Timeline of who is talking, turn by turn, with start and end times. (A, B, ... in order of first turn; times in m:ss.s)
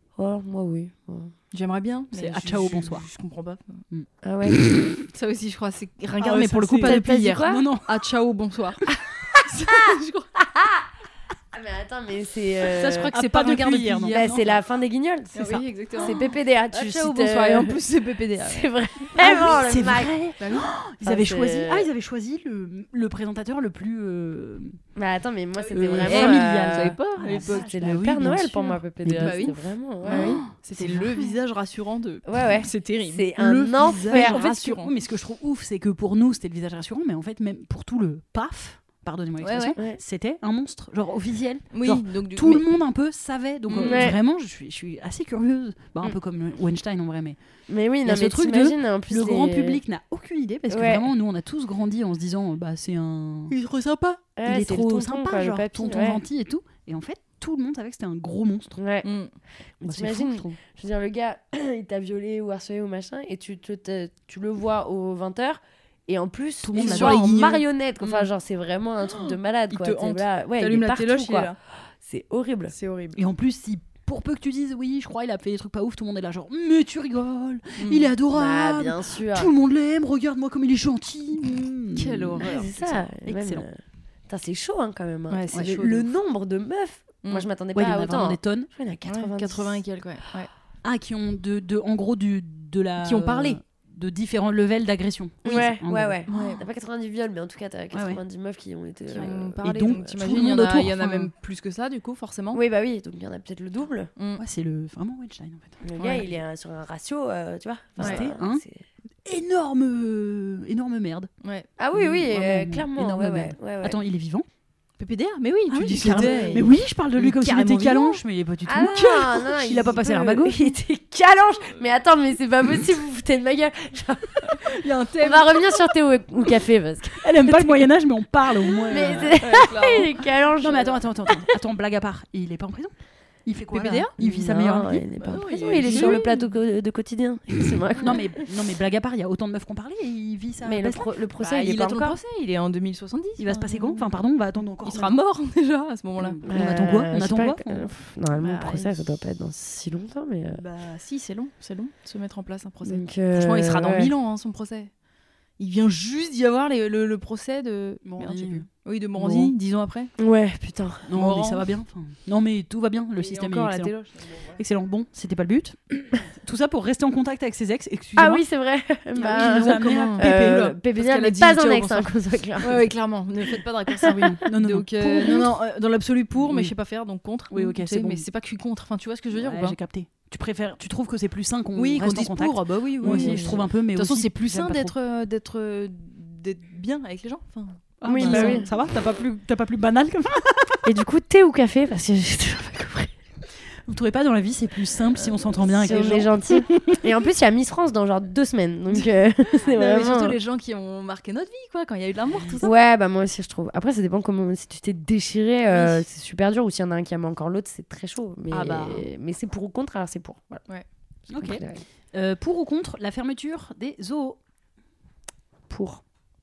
0:00.2-0:01.3 A
0:01.5-0:03.8 B
0:02.1-0:03.0 C
0:03.9-0:05.0 C
0:04.2-0:04.7 A
0:05.1-0:08.9 B
0:06.2-0:07.9 C
0:06.8-0:07.7 A
0:09.4-0:10.3 B
0:09.6-0:10.8 A
0:11.5-0:13.2 A
0:12.7-0:14.6 B
0:12.8-0:14.4 C
0:14.1-0:17.8 A
0:15.3-0:16.2 B
0:15.4-0:16.1 C
0:16.7-0:19.5 B
0:18.4-0:20.1 A
0:19.2-0:24.8 C
0:20.4-0:20.7 B
0:21.0-0:21.9 A
0:25.0-0:30.4 A
0:25.6-0:27.7 B
0:25.7-0:29.4 C
0:29.1-0:34.9 B
0:30.0-0:31.3 C
0:32.2-0:34.5 A
0:33.8-0:47.4 C
0:39.4-0:39.8 B
0:41.7-0:42.6 B
0:43.7-0:44.2 B
0:43.8-0:44.2 A
0:47.7-0:49.8 A
0:48.0-0:53.6 C
0:50.7-0:51.1 A
0:53.5-0:54.2 B
0:54.4-0:56.2 A
0:54.4-0:58.8 C
0:58.8-0:59.1 A
0:59.0-0:59.3 B
0:59.8-1:12.7 A
0:59.8-1:00.5 C
1:06.6-1:07.6 C
1:06.7-1:08.3 B
1:09.1-1:11.6 B
1:12.7-1:13.2 B
1:13.1-1:23.6 C
1:17.8-1:18.1 B
1:18.3-1:19.5 A
1:21.9-1:22.7 B
1:22.4-1:29.8 A
1:25.3-1:26.1 B
1:27.7-1:28.7 C
1:29.0-1:30.5 B
1:30.8-1:36.5 C
1:33.0-1:33.6 B
1:35.4-1:40.2 A
1:36.3-1:36.6 B
1:37.9-1:38.2 C
1:39.1-1:41.3 C
1:39.1-1:42.6 B
1:42.5-1:44.1 A
1:44.2-1:44.4 B
1:44.4-1:45.8 C
1:45.8-1:48.8 A
1:46.0-1:46.2 B
1:48.0-1:48.6 C
1:48.0-1:48.3 B
1:49.2-1:51.3 C
1:51.4-1:51.7 B
1:51.8-1:54.0 A
1:51.9-1:54.4 C
1:55.0-1:58.2 B
1:55.7-2:00.7 C
1:56.0-1:56.7 A
1:58.6-2:07.9 A
2:04.5-2:05.8 B
2:07.2-2:09.3 C
2:08.8-2:11.0 A
2:08.9-2:10.2 B
2:10.6-2:12.9 C
2:13.4-2:15.0 C
2:13.7-2:14.1 B
2:14.2-2:18.3 A
2:15.2-2:16.4 B
2:15.8-2:16.3 C
2:18.0-2:21.1 C
2:20.6-2:22.2 A
2:21.4-2:24.1 B
2:23.4-2:25.2 C
2:24.8-2:26.4 B
2:26.2-2:28.9 C
2:26.4-2:30.6 A
2:30.6-2:34.9 B
2:32.8-2:34.1 A
2:35.6-2:40.1 B
2:38.0-2:38.6 C
2:39.2-2:39.5 C
2:40.2-2:41.1 A
2:41.1-2:43.9 C
2:41.1-2:41.7 B
2:43.2-2:44.6 B
2:44.6-2:48.4 C
2:48.2-2:52.9 A
2:49.2-2:50.6 C
2:49.2-2:59.8 B
2:53.9-2:54.3 A
2:54.0-2:55.6 C
2:56.3-2:56.7 C
2:57.5-2:58.2 C
2:59.3-3:04.9 C
3:01.7-3:08.6 B
3:03.0-3:03.6 A
3:08.0-3:10.8 C
3:08.0-3:08.7 A
3:10.8-3:13.1 A
3:13.8-3:16.6 C
3:15.7-3:20.4 A
3:19.6-3:22.7 B
3:22.3-3:22.6 C
3:22.6-3:30.6 A
3:25.7-3:26.0 B
3:28.5-3:29.0 B
3:31.3-3:31.8 A
3:31.3-3:31.6 C
3:32.1-3:34.4 C
3:35.7-3:36.0 A